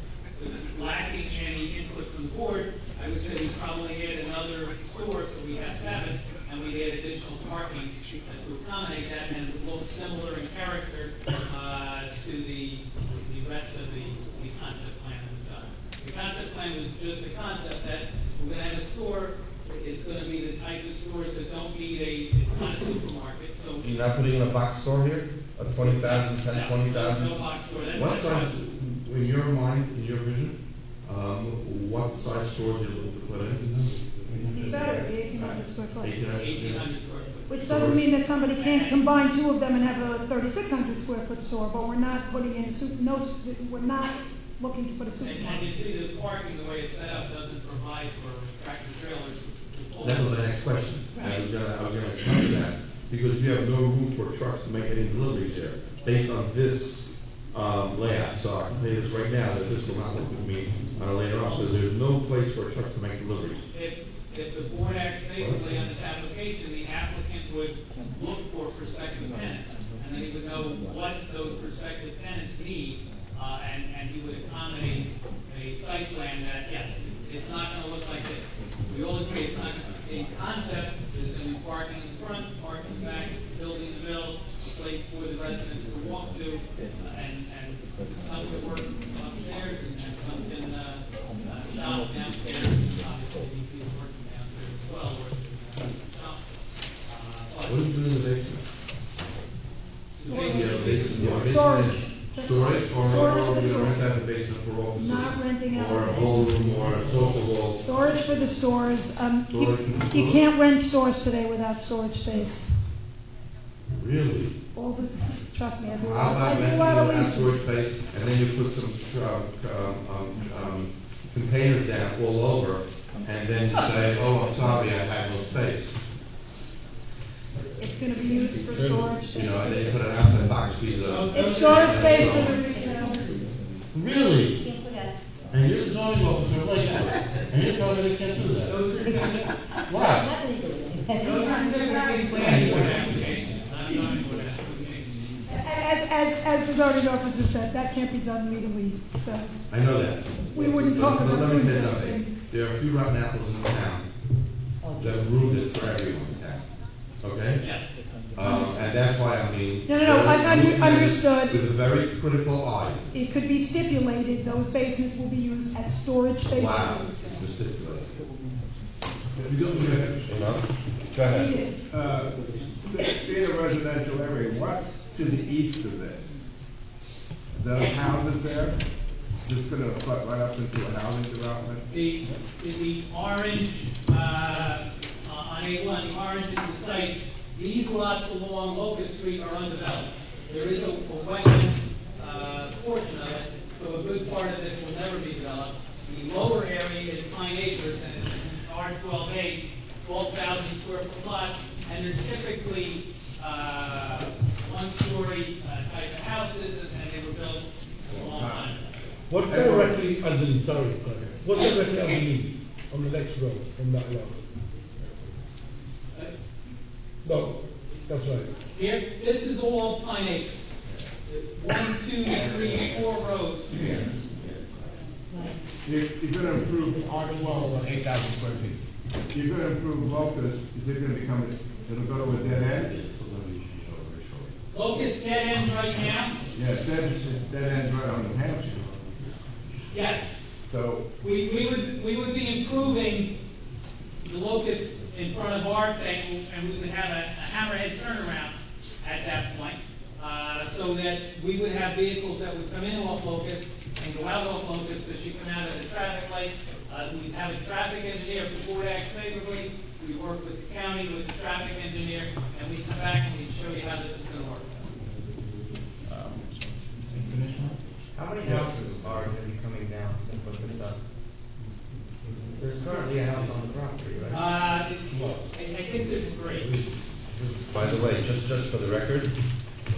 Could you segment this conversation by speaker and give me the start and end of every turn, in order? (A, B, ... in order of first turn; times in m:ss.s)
0:00.4-0:23.9 A
0:23.8-0:36.9 B
0:25.8-0:28.6 A
0:34.4-0:36.2 C
0:36.3-0:37.6 A
0:37.5-0:45.7 C
0:37.6-0:38.0 B
0:38.5-0:39.0 A
0:45.2-0:50.4 A
0:50.0-1:03.7 B
1:01.4-1:01.7 A
1:03.7-1:36.5 A
1:05.4-1:05.7 B
1:37.1-1:37.8 A
1:37.6-1:38.6 B
1:40.1-1:41.6 A
1:40.3-1:44.1 C
1:40.3-1:47.8 B
1:45.0-1:52.7 C
1:49.5-1:50.4 B
1:53.9-1:54.6 B
1:54.7-1:57.6 C
1:56.0-2:06.0 B
2:07.8-2:09.7 C
2:09.3-2:12.6 B
2:11.0-2:12.6 A
2:11.3-2:13.3 C
2:12.7-2:13.4 D
2:13.9-2:14.6 B
2:14.6-2:15.2 D
2:15.5-2:18.8 B
2:18.6-2:19.7 A
2:19.9-2:20.3 B
2:20.0-2:21.6 D
2:21.2-2:25.2 A
2:21.2-2:23.1 C
2:22.3-2:23.5 B
2:25.5-2:29.5 C
2:29.7-2:34.1 B
2:30.5-2:32.3 C
2:35.0-2:36.6 B
2:37.2-2:37.6 B
2:37.6-2:37.9 A
2:38.3-2:43.0 B
2:38.4-2:38.9 C
2:39.9-2:41.6 C
2:43.1-2:47.4 C
2:46.5-2:48.1 B
2:49.4-2:50.4 E
2:49.7-2:50.2 F
2:50.3-2:51.5 B
2:51.2-2:51.8 C
2:51.9-2:56.5 F
2:57.5-2:58.8 F
2:59.4-3:01.8 F
3:01.9-3:28.8 A
3:28.1-3:28.7 F
3:29.3-3:34.4 E
3:29.4-3:30.0 F
3:37.2-3:38.5 E
3:38.7-3:40.6 A
3:41.3-3:43.9 A
3:42.4-3:42.8 F
3:45.8-3:48.3 F
3:47.8-3:48.9 E
3:49.3-3:52.9 F
3:52.6-3:54.5 B
3:54.7-3:56.4 A
3:56.5-3:58.9 F
3:59.9-4:00.3 A
4:00.7-4:01.0 F
4:01.2-4:03.3 A
4:04.2-4:24.7 A
4:26.1-4:26.4 G
4:27.1-4:31.0 G
4:28.4-4:28.7 B
4:32.6-4:34.4 G
4:34.3-4:36.7 A
4:35.1-4:35.4 B
4:37.6-4:39.3 B